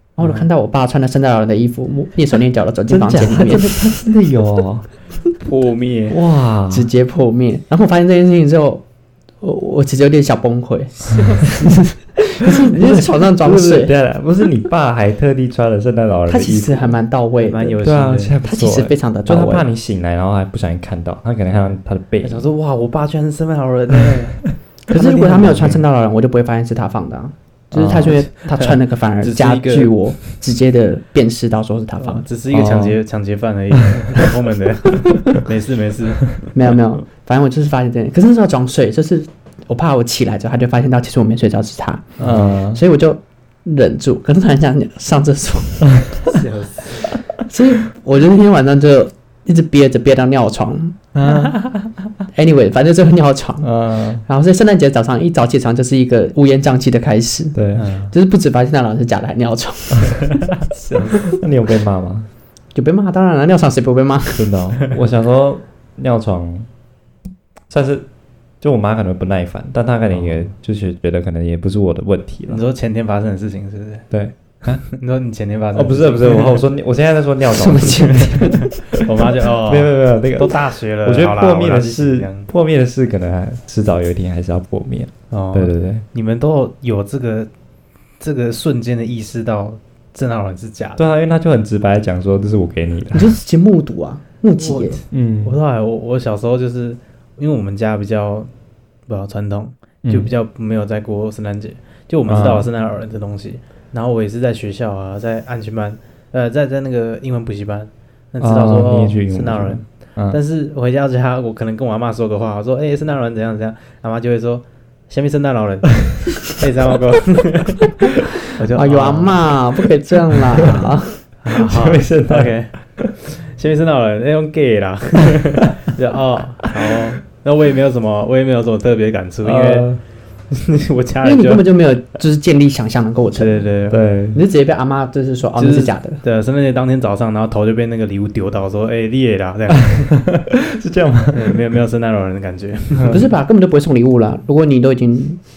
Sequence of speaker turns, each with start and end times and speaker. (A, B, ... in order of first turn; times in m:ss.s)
0:00.2-0:04.1 A
0:00.2-0:00.5 B
0:02.9-0:04.9 C
0:05.4-0:06.2 B
0:06.1-0:06.9 C
0:06.7-0:08.8 A
0:09.4-0:13.9 A
0:12.8-0:17.0 C
0:16.3-0:17.8 A
0:17.4-0:18.4 B
0:17.8-0:22.5 C
0:18.4-0:19.7 A
0:21.6-0:25.8 B
0:24.9-0:32.3 A
0:27.7-0:28.1 C
0:27.9-0:30.0 B
0:32.0-0:36.5 B
0:32.5-0:33.0 C
0:36.5-0:42.1 A
0:42.2-0:42.5 B
0:42.2-0:42.8 C
0:42.6-0:46.0 A
0:46.3-0:47.1 B
0:47.4-0:51.0 A
0:51.1-0:51.6 C
0:51.3-0:51.8 B
0:52.3-0:53.7 A
0:53.6-0:54.2 C
0:54.2-0:57.6 A
0:57.6-0:57.9 C
0:57.8-0:58.1 B
0:58.1-1:00.4 A
1:00.6-1:01.4 B
1:01.3-1:02.3 C
1:02.8-1:04.5 A
1:04.4-1:06.7 C
1:07.7-1:08.1 C
1:08.6-1:12.6 C
1:10.1-1:10.5 B
1:12.5-1:14.1 B
1:14.1-1:14.8 C
1:14.6-1:16.6 B
1:15.7-1:18.7 C
1:17.5-1:18.8 A
1:18.9-1:22.5 B
1:19.7-1:26.0 C
1:25.3-1:27.5 B
1:28.2-1:31.0 B
1:31.0-1:33.4 C
1:33.1-1:35.0 A
1:34.6-1:38.5 B
1:35.1-1:35.6 C
1:39.1-1:59.5 B
1:40.0-1:40.3 C
1:42.3-1:42.7 C
1:48.4-1:50.4 C
1:58.7-2:01.2 A
2:01.4-2:02.7 B
2:01.5-2:03.2 C
2:03.4-2:09.9 B
2:09.4-2:10.0 C
2:10.5-2:11.8 B
2:11.2-2:13.6 A
2:13.3-2:14.1 B
2:13.9-2:14.4 C
2:14.3-2:16.2 A
2:15.6-2:20.2 B
2:19.7-2:21.7 C
2:21.3-2:23.2 B
2:22.9-2:23.2 C
2:23.1-2:25.4 A